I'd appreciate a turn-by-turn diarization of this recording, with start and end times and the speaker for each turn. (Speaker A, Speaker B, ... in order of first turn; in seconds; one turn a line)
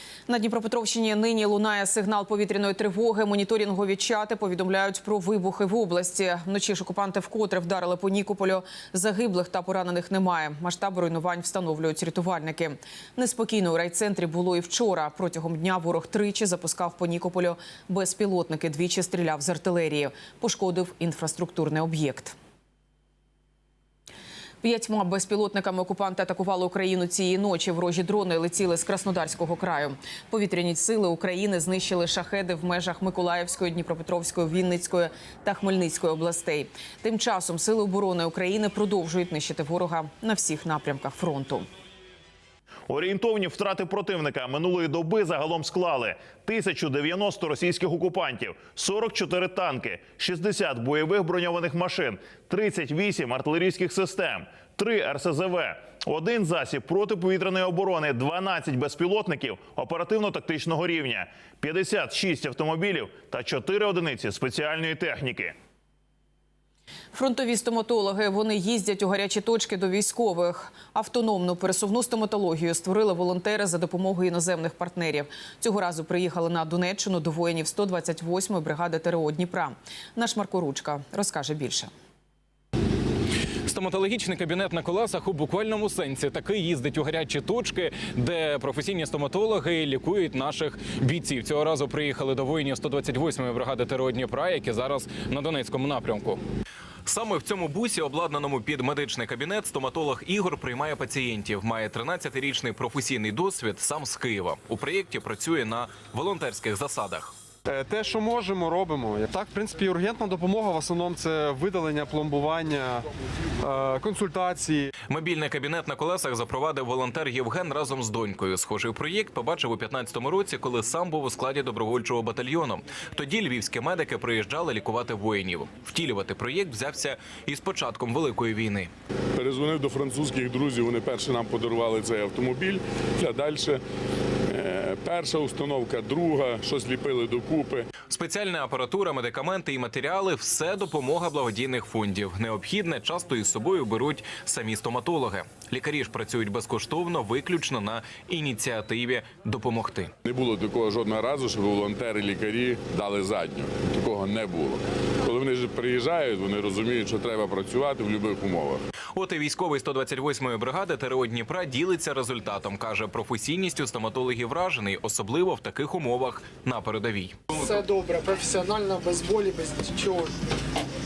Speaker A: 0.3-22.4
Speaker A: 24.6-41.7
Speaker B: 42.9-65.5
Speaker A: 67.1-81.9
Speaker C: 83.7-96.4
Speaker C: 97.1-107.3
Speaker D: 107.7-113.0
Speaker D: 113.6-114.9
Speaker C: 115.1-128.9
Speaker E: 129.4-133.8
Speaker E: 134.5-137.9
Speaker C: 138.1-150.1
Speaker E: 150.2-158.8
Speaker C: 159.2-167.4
Speaker F: 167.6-170.3